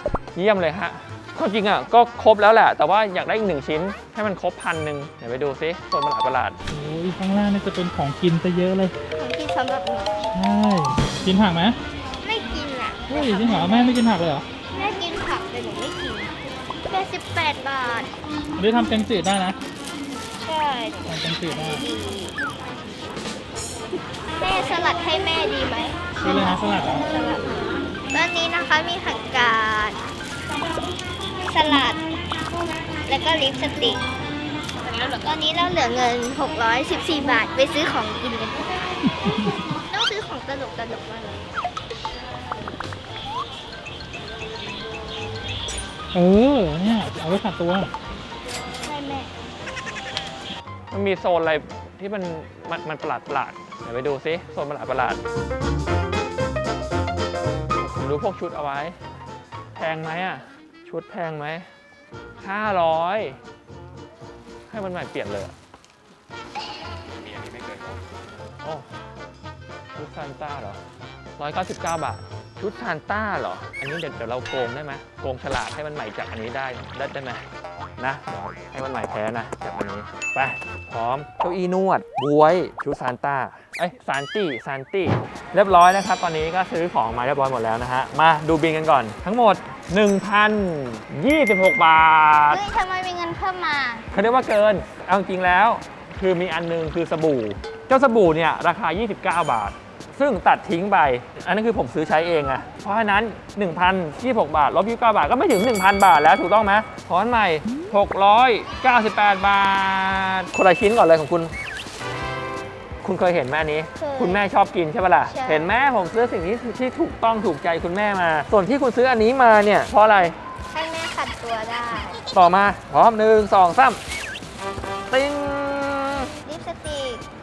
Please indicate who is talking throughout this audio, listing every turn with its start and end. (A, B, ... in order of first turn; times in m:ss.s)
0:00.3-0:06.6 A
0:06.7-0:08.9 B
0:09.2-0:10.2 C
0:10.3-0:11.8 B
0:12.2-0:14.0 C
0:13.1-0:14.4 B
0:14.7-0:16.3 C
0:16.9-0:18.1 C
0:18.6-0:19.6 B
0:20.4-0:22.4 C
0:21.0-0:21.8 B
0:24.3-0:27.6 C
0:26.2-0:27.1 B
0:28.1-0:30.0 C
0:31.4-0:32.0 C
0:33.0-0:34.1 C
0:34.9-0:38.8 C
0:39.2-0:39.6 B
0:39.7-0:41.4 C
0:46.1-0:47.9 B
0:48.8-0:49.3 C
0:50.9-0:55.2 A
0:57.8-0:59.0 A
0:59.8-1:01.7 A
1:02.4-1:03.4 A
1:04.7-1:05.5 A
1:09.9-1:10.8 A
1:11.4-1:17.4 A
1:18.0-1:32.6 A
1:32.5-1:34.1 C
1:34.1-1:51.5 A
1:53.0-2:00.3 A
1:54.0-1:54.4 C
1:55.3-1:55.7 C
2:00.7-2:02.2 C
2:02.3-2:04.0 A
2:05.1-2:06.3 A
2:06.4-2:07.2 C